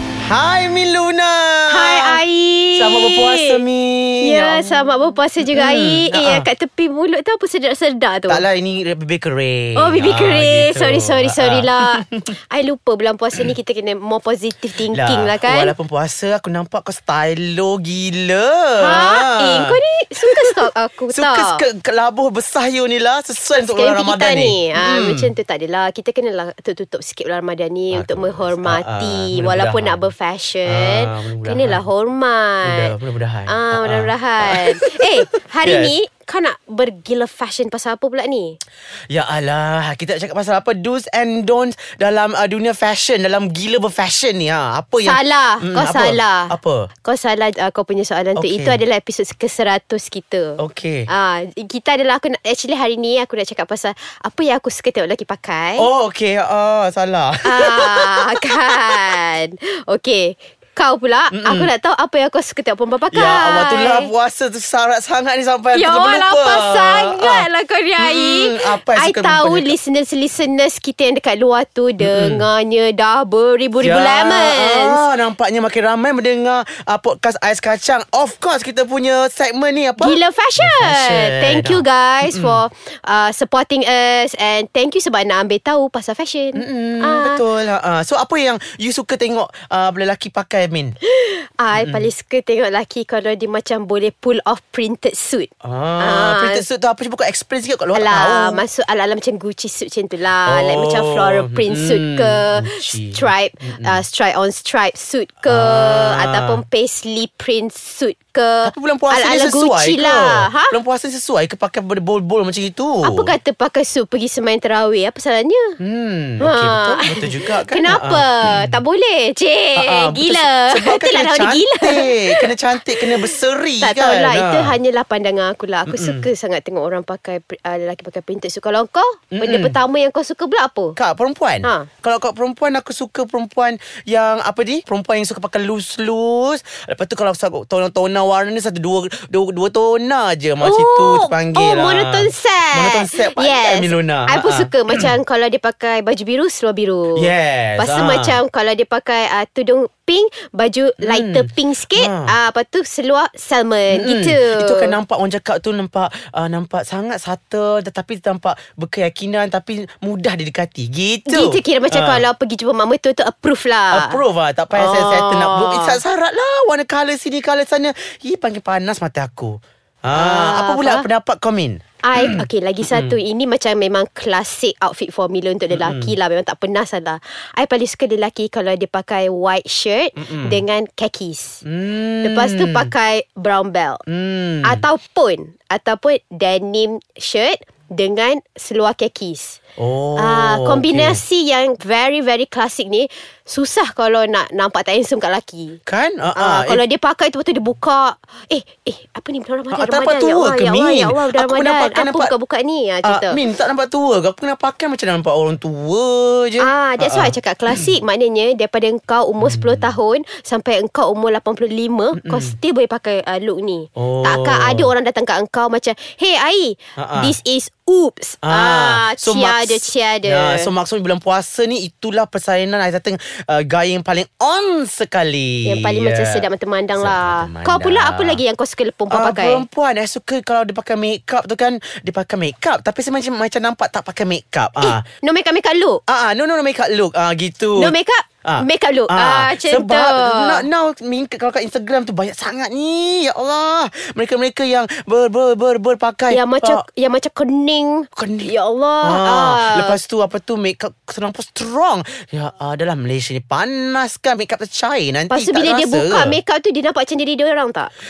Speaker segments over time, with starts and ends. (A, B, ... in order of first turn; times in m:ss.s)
0:00.2-0:02.2 A
0:01.7-0:03.6 B
0:02.7-0:04.7 A
0:04.2-0:08.4 B
0:05.5-0:06.5 A
0:08.3-0:12.3 A
0:09.8-0:15.7 B
0:14.9-0:20.5 A
0:18.8-0:21.6 B
0:21.1-0:25.3 A
0:23.5-0:32.9 B
0:27.9-0:30.1 A
0:30.7-0:31.8 A
0:32.6-0:35.1 A
0:33.5-0:38.6 B
0:35.6-0:35.9 A
0:39.1-0:46.9 A
0:45.0-0:55.9 B
0:48.4-0:48.8 A
0:50.6-0:51.1 A
0:55.8-0:59.1 A
0:57.4-1:04.1 B
1:01.3-1:01.7 A
1:03.1-1:07.5 A
1:05.7-1:15.0 B
1:08.0-1:09.7 A
1:12.0-1:12.4 A
1:13.8-1:22.6 A
1:20.0-1:27.4 B
1:26.6-1:31.0 A
1:31.0-1:36.6 B
1:31.7-1:32.0 A
1:35.6-1:38.6 A
1:37.9-1:50.8 B
1:40.4-1:44.0 A
1:45.4-1:46.6 A
1:48.6-1:53.3 A
1:53.0-1:55.8 B
1:55.8-1:58.7 A
1:56.4-2:11.0 B
1:59.8-2:04.8 A
2:05.9-2:06.3 A
2:09.3-2:09.8 A
2:11.0-2:25.1 A
2:20.6-2:35.0 B
2:27.2-2:28.4 A
2:31.0-2:32.3 A
2:33.9-2:42.2 A
2:41.3-2:44.2 B
2:43.9-2:53.2 A
2:44.7-2:46.0 B
2:50.1-2:51.0 B
2:52.0-3:01.6 B
2:55.7-2:56.1 A
3:00.2-3:00.6 A
3:01.6-3:02.9 A
3:02.2-3:04.0 B
3:04.1-3:04.8 A
3:04.6-3:09.6 B
3:09.8-3:11.2 A
3:10.2-3:15.8 B
3:15.8-3:16.8 A
3:16.4-3:23.4 B
3:19.7-3:22.3 A
3:23.0-3:27.8 A
3:26.6-3:40.7 B
3:29.4-3:29.9 A
3:32.2-3:32.5 A
3:34.0-3:34.9 A
3:37.0-3:37.3 A
3:38.4-3:46.4 A
3:45.6-3:49.6 B
3:47.0-3:48.4 A
3:49.1-3:55.0 A
3:54.8-3:56.0 B
3:56.1-3:57.9 A
3:57.8-4:00.6 B
3:58.4-4:06.8 A
4:06.3-4:10.0 B
4:08.2-4:16.4 A
4:15.3-4:17.9 B